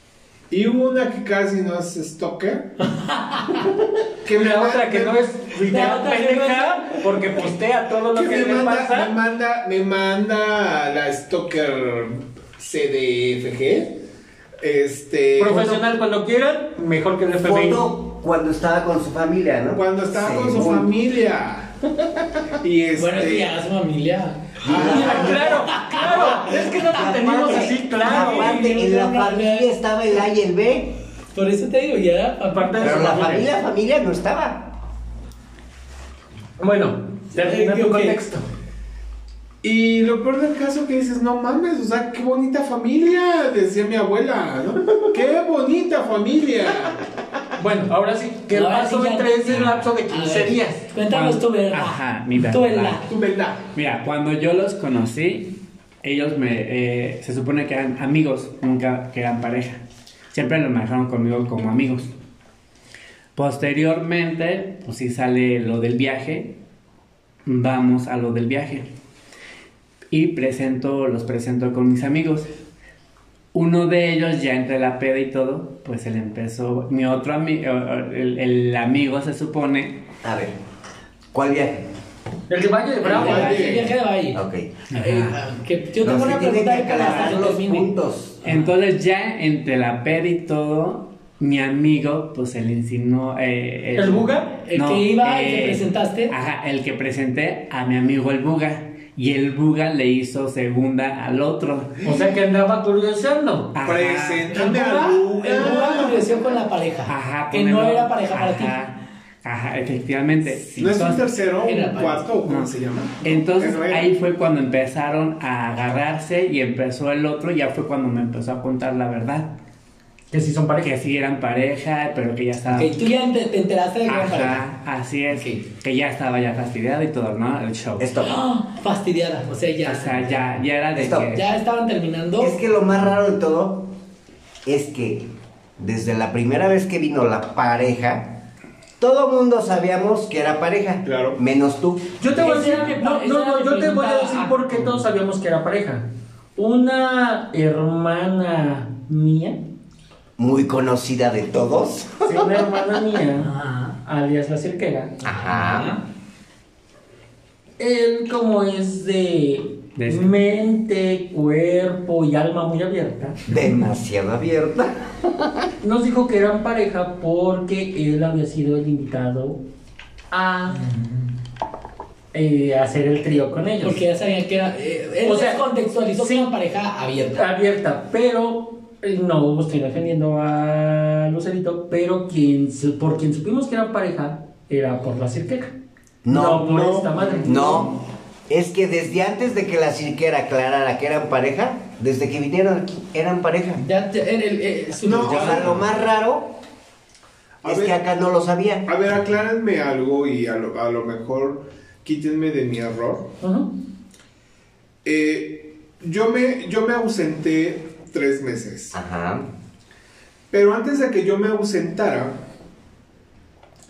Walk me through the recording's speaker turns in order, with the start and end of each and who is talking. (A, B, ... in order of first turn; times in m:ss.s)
0:00.5-0:02.7 A
0:03.1-0:03.6 B
0:04.2-0:05.2 A
0:04.3-0:09.1 C
0:05.6-0:07.2 B
0:08.1-0:14.0 A
0:14.6-0:15.8 A
0:15.4-0:17.9 C
0:17.4-0:20.9 D
0:19.7-0:21.8 A
0:22.6-0:23.5 A
0:23.0-0:26.8 B
0:24.6-0:25.5 D
0:24.6-0:25.6 A
0:24.7-0:28.7 C
0:26.2-0:30.9 D
0:27.5-0:29.7 B
0:31.3-0:33.4 B
0:32.5-0:33.4 C
0:32.8-0:34.7 D
0:36.6-0:38.4 C
0:37.3-0:38.2 B
0:39.6-0:47.0 A
0:47.6-0:50.8 C
0:48.5-0:53.1 B
0:51.1-0:53.0 E
0:53.0-0:53.6 A
0:53.7-1:02.1 E
1:03.3-1:06.6 E
1:07.4-1:08.8 E
1:10.1-1:12.5 E
1:13.5-1:20.1 E
1:20.2-1:20.6 D
1:21.3-1:21.9 D
1:22.5-1:23.7 C
1:23.0-1:27.9 B
1:23.1-1:23.9 A
1:23.2-1:23.7 E
1:24.3-1:24.7 D
1:24.9-1:25.4 E
1:26.0-1:28.4 D
1:28.4-1:42.1 E
1:34.0-1:34.5 C
1:34.6-1:36.3 B
1:42.0-1:43.8 C
1:43.7-1:44.6 E
1:43.8-1:46.2 A
1:44.5-1:45.4 C
1:45.4-1:48.7 B
1:47.1-1:51.3 E
1:50.7-1:54.1 A
1:51.6-1:52.3 B
1:52.4-1:59.6 E
2:00.3-2:00.9 C
2:00.8-2:03.0 E
2:02.7-2:04.6 B
2:04.1-2:08.1 E
2:05.3-2:05.6 B
2:08.0-2:08.4 D
2:08.2-2:10.4 B
2:09.8-2:11.5 E
2:10.9-2:11.4 D
2:11.2-2:12.6 B
2:12.4-2:13.9 D
2:14.6-2:15.3 D
2:15.8-2:18.3 D
2:19.0-2:22.1 D
2:21.0-2:21.4 A
2:22.2-2:29.6 C
2:22.3-2:25.0 B
2:30.4-2:32.7 D
2:32.2-2:35.2 C
2:33.4-2:34.0 B
2:35.2-2:35.9 D
2:35.4-2:36.0 B
2:37.8-2:43.4 C
2:40.0-2:40.3 E
2:43.5-2:45.5 D
2:45.8-2:49.6 C
2:50.3-2:50.8 C
2:50.7-2:51.3 B
2:52.3-2:54.0 C
2:53.8-2:57.4 B
2:55.2-2:56.5 C
2:57.4-3:05.7 C
3:06.2-3:06.8 D
3:06.3-3:07.9 C
3:06.7-3:07.1 A
3:07.4-3:08.0 D
3:08.5-3:13.8 D
3:13.8-3:15.8 B
3:15.0-3:15.8 A
3:15.2-3:16.5 D
3:15.5-3:15.8 E
3:17.6-3:18.0 A
3:17.6-3:18.8 D
3:18.8-3:23.3 A
3:23.4-3:23.7 C
3:25.0-3:29.0 A
3:28.9-3:29.5 D
3:30.5-3:32.4 A